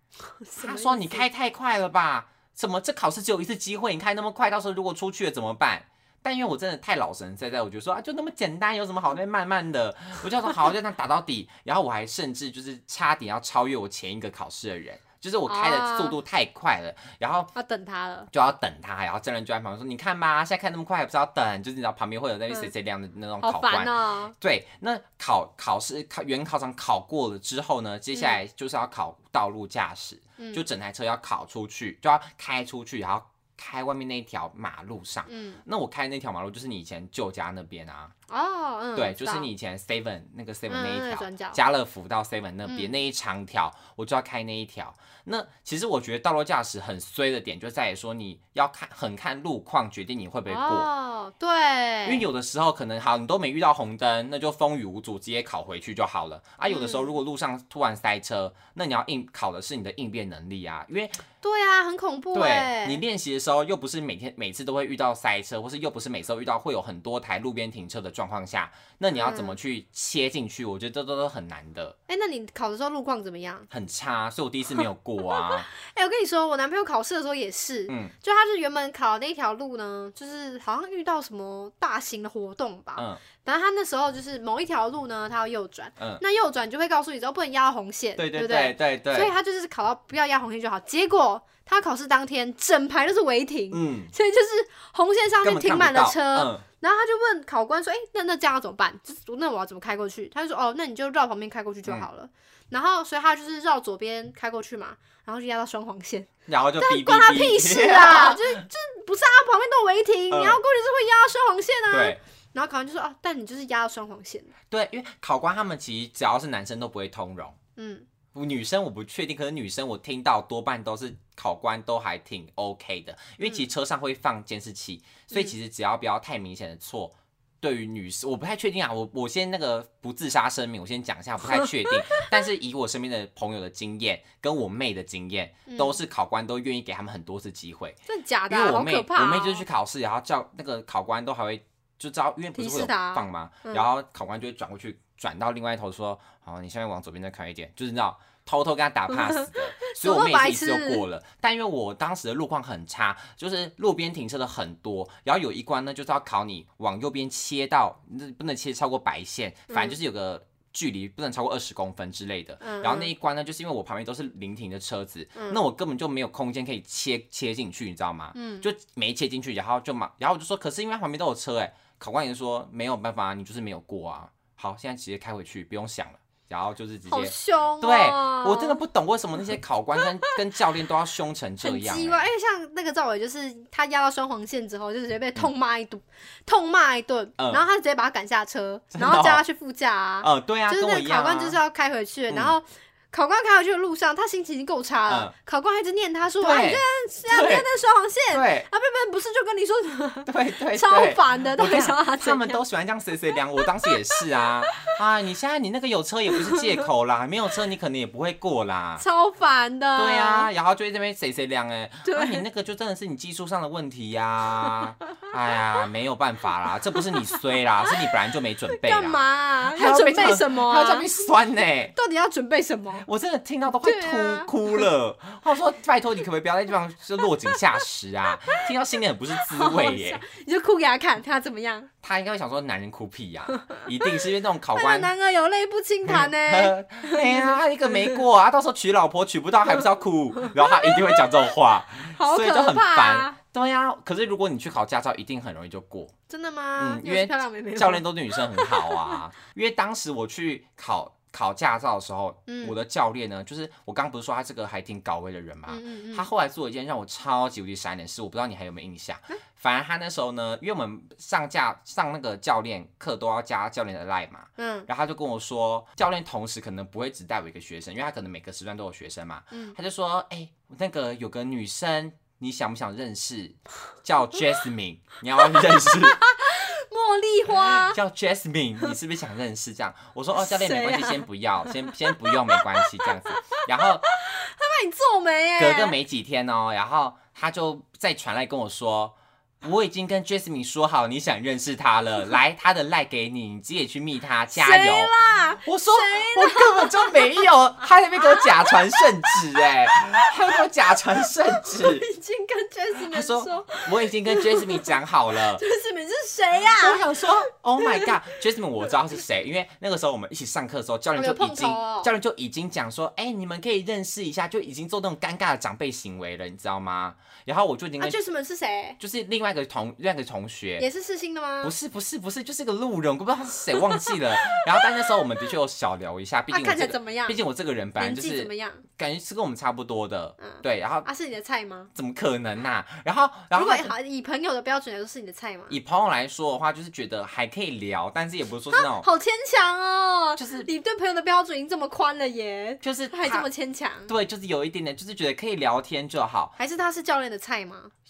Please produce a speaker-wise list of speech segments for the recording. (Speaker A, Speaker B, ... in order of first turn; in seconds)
Speaker A: 0.4-1.3, 15.5-16.2, 17.5-18.3, 23.4-24.3, 28.1-28.4, 30.4-30.6, 35.3-35.6, 38.3-39.5, 40.7-41.6, 42.6-43.0, 50.5-52.2, 56.7-57.1, 61.4-63.0, 69.1-69.6, 72.1-73.7, 75.2-114.5, 117.8-118.0, 131.5-132.4, 135.7-136.0, 138.1-139.6, 142.5-143.8, 149.1-151.0, 159.7-160.0, 162.6-163.1, 165.3-165.6, 168.3-168.7, 177.1-178.8, 180.0-180.3, 181.6-202.6, 203.6-204.4, 206.3-206.6, 209.0-210.5, 212.0-212.4, 218.7-221.1, 221.9-223.0, 223.8-224.9, 229.4-231.9, 233.7-234.2, 234.7-238.2, 240.4-241.2, 242.1-243.3, 246.3-249.2, 252.5-252.8, 255.7-256.3, 264.6-264.9, 275.4-278.0, 280.3-285.9, 294.5-297.5, 298.1-307.2, 307.8-308.1, 311.1-312.1, 318.0-319.0, 320.8-321.7, 323.8-324.2, 326.5-327.4, 328.0-328.8, 330.4-331.9, 333.5-335.8, 338.7-344.1, 346.6-347.9
Speaker B: 0.6-17.5, 18.3-38.1, 38.9-50.9, 52.0-61.2, 62.3-72.0, 73.7-75.7, 77.9-78.1, 83.0-83.2, 88.2-89.3, 93.7-94.1, 95.4-96.6, 106.5-108.7, 110.3-110.6, 111.9-112.2, 114.7-117.6, 118.3-182.3, 187.4-187.6, 188.9-189.4, 190.2-191.6, 192.3-192.5, 195.1-195.3, 196.4-197.7, 198.3-198.7, 200.2-209.0, 209.9-221.9, 223.0-230.2, 232.0-235.1, 236.1-246.1, 246.8-276.2, 277.5-284.1, 285.6-295.1, 295.6-302.1, 303.1-305.6, 306.7-318.2, 319.0-320.9, 321.6-331.1, 331.9-333.9, 335.7-339.1, 340.4-340.7, 342.8-343.5, 344.1-346.5